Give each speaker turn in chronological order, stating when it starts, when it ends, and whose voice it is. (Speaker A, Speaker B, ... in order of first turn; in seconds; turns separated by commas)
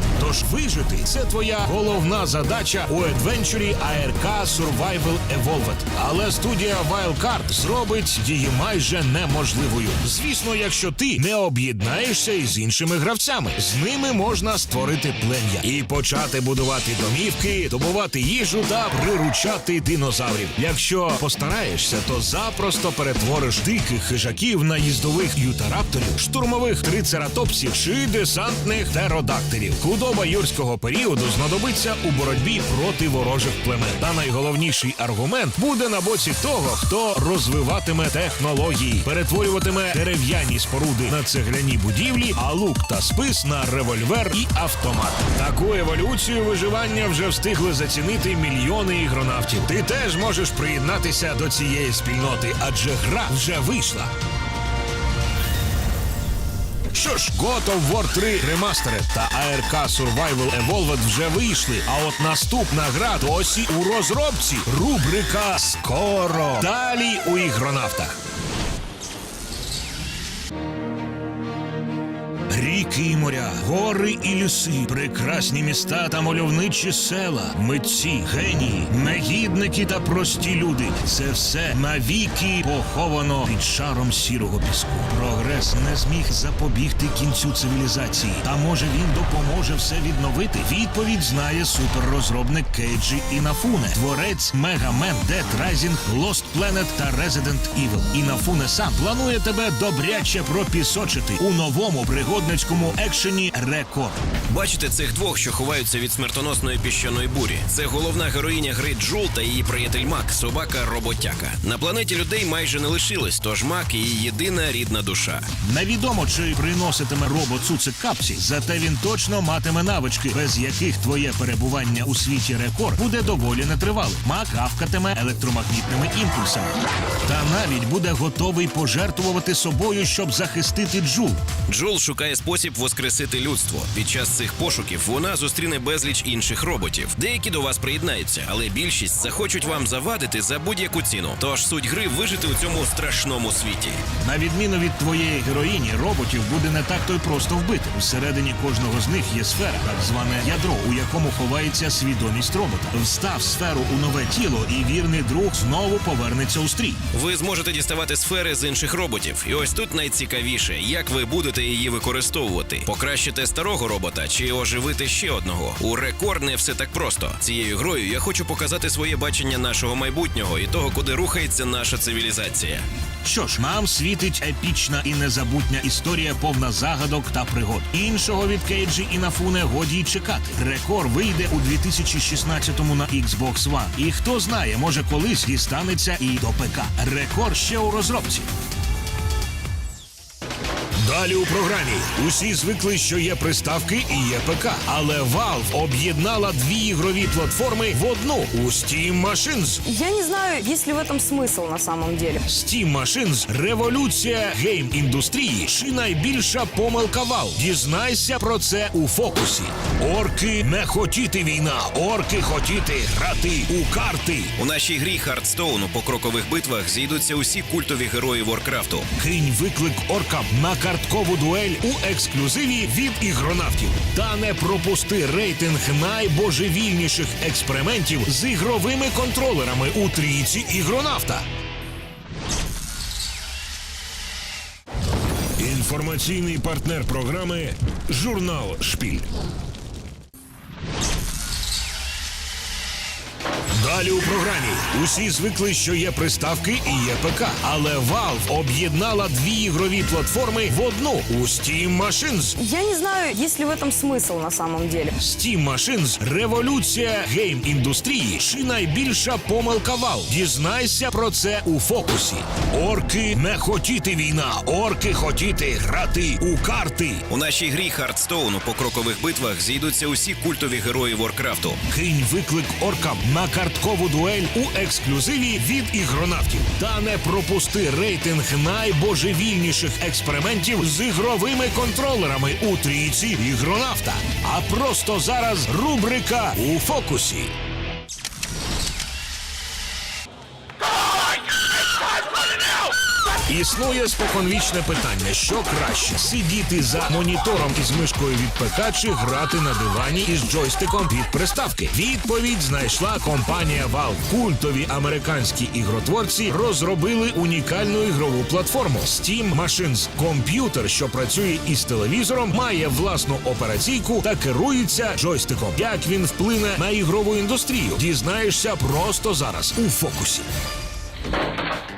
Speaker A: 0.2-54.1, Speaker A: 56.9-68.2, Speaker A: 72.5-104.1, Speaker B: 104.5-115.5, Speaker A: 115.6-131.4, Speaker B: 131.7-144.0, Speaker A: 144.2-157.0, Speaker B: 157.1-172.9, Speaker A: 173.2-188.5, Speaker A: 191.0-199.8, Speaker C: 199.8-202.5, Speaker A: 202.5-214.5, Speaker B: 214.6-219.1, Speaker A: 219.2-231.4, Speaker A: 235.6-239.3, Speaker A: 243.8-252.6, Speaker C: 252.6-255.2, Speaker A: 255.2-267.2, Speaker B: 267.3-271.8, Speaker A: 271.9-287.5, Speaker A: 293.5-320.5